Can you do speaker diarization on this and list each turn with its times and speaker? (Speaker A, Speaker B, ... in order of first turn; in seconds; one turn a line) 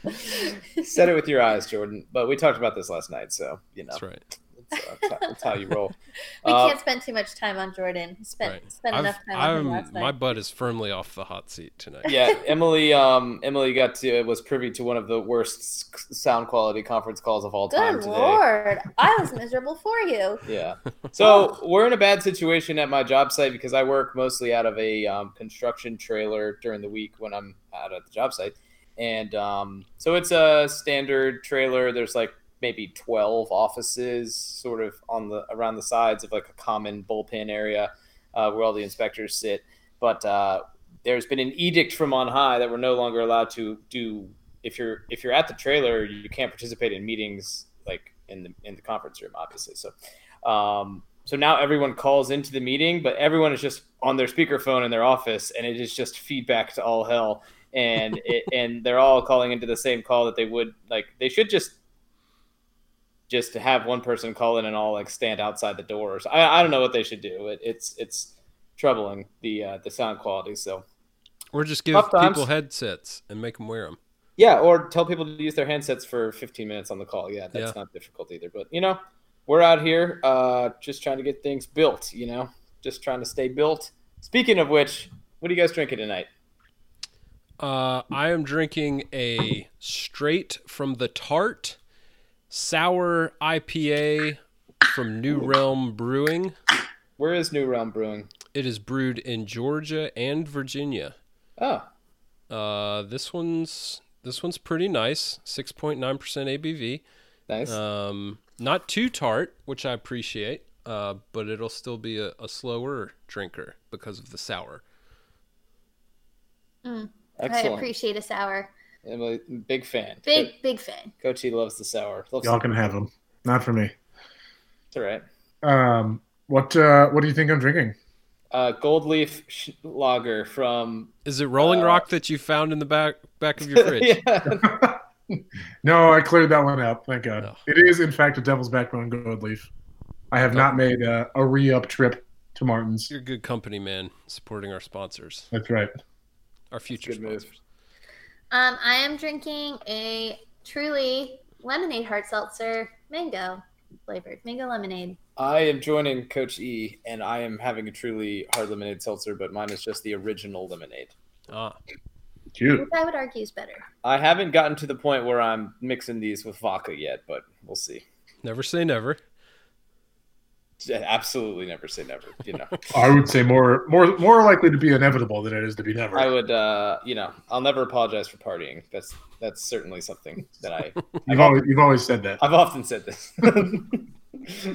Speaker A: 0.2-0.8
Speaker B: 0.8-4.0
Speaker C: 3.9-4.2
Speaker B: 4.6-6.8
Speaker A: 6.4-10.1
Speaker C: 8.4-12.1
Speaker B: 12.1-18.4
Speaker A: 17.7-20.4
Speaker B: 20.4-61.8
Speaker A: 21.2-21.5
Speaker B: 63.3-70.8
Speaker C: 71.5-74.0
Speaker B: 71.9-72.5
Speaker B: 74.4-86.3
Speaker C: 87.6-91.8
Speaker C: 92.5-96.5
Speaker B: 97.2-98.3
Speaker C: 98.5-101.2
Speaker B: 101.6-101.9
Speaker C: 102.5-107.0
Speaker B: 107.5-107.8
Speaker C: 107.7-114.8
Speaker A: 116.8-118.7
Speaker B: 117.4-117.9
Speaker B: 119.0-120.5
Speaker A: 120.3-121.1
Speaker B: 121.2-122.7
Speaker D: 122.4-123.9
Speaker B: 124.9-125.2
Speaker D: 125.6-128.0
Speaker B: 128.5-132.1
Speaker C: 131.2-134.2
Speaker B: 133.7-134.8
Speaker D: 134.6-139.7
Speaker D: 140.3-143.1
Speaker C: 143.1-145.5
Speaker D: 145.5-145.9
Speaker C: 146.7-147.5
Speaker B: 146.9-147.5
Speaker A: 148.5-155.2
Speaker B: 155.4-161.1
Speaker C: 161.5-161.8
Speaker D: 162.6-162.9
Speaker A: 162.7-163.8
Speaker B: 164.0-168.1
Speaker C: 168.4-169.2
Speaker B: 170.8-172.8
Speaker D: 172.9-176.3
Speaker B: 176.1-181.6
Speaker D: 181.3-182.4
Speaker B: 182.4-184.1